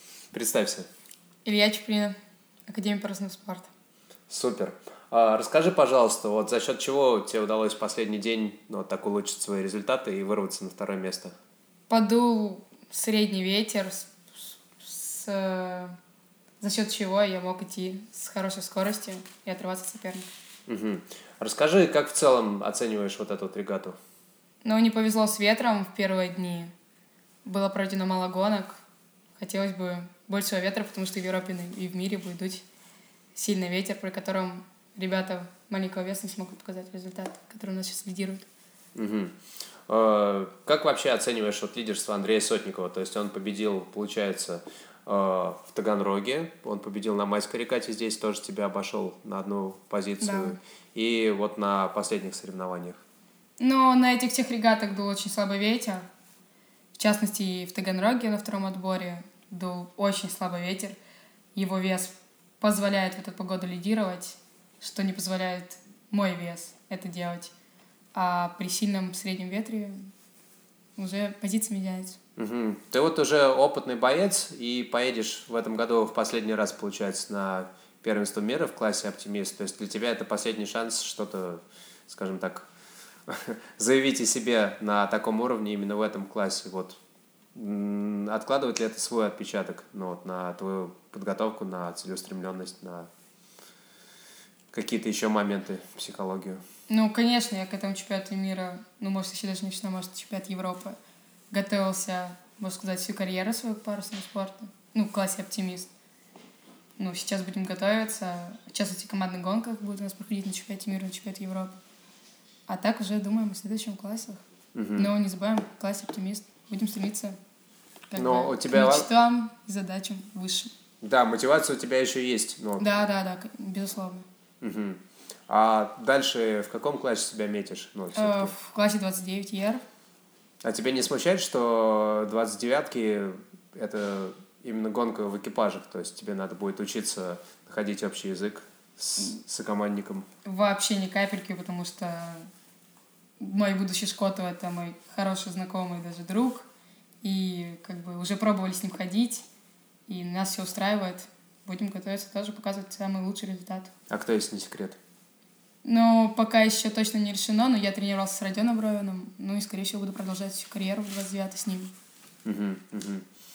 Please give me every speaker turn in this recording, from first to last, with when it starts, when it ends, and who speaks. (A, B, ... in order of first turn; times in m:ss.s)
0:00.3-0:00.9 A
0:01.4-0:02.2 B
0:02.7-0:03.7 B
0:04.3-0:11.3 A
0:11.9-0:16.0 B
0:16.6-0:20.3 B
0:20.7-0:24.0 A
0:24.6-0:26.7 B
0:27.4-0:28.8 B
0:29.4-0:32.6 B
0:33.4-0:38.5 B
0:39.0-0:39.4 A
0:39.9-0:53.0 A
0:50.2-0:50.6 B
0:53.6-0:56.1 B
0:57.0-1:01.0 B
1:01.5-1:07.5 B
1:08.1-1:10.1 B
1:11.0-1:12.2 B
1:12.4-1:22.7 A
1:23.3-1:27.0 A
1:27.5-1:33.1 A
1:34.7-1:36.6 A
1:36.9-1:41.0 B
1:41.5-1:45.9 B
1:47.0-1:51.8 B
1:52.7-1:54.4 B
1:54.8-1:55.1 A
1:55.0-1:57.4 B
1:58.1-2:00.7 B
1:58.2-1:59.1 A
2:01.0-2:02.9 A
2:02.8-2:04.3 B
2:04.6-2:08.6 A
2:08.2-2:09.8 B
2:10.6-2:20.3 A
2:20.4-2:22.5 B
2:23.4-2:26.7 B
2:27.2-2:29.4 B
2:30.1-2:33.9 B
2:34.1-2:35.0 A
2:35.8-2:41.9 B
2:42.4-2:43.2 A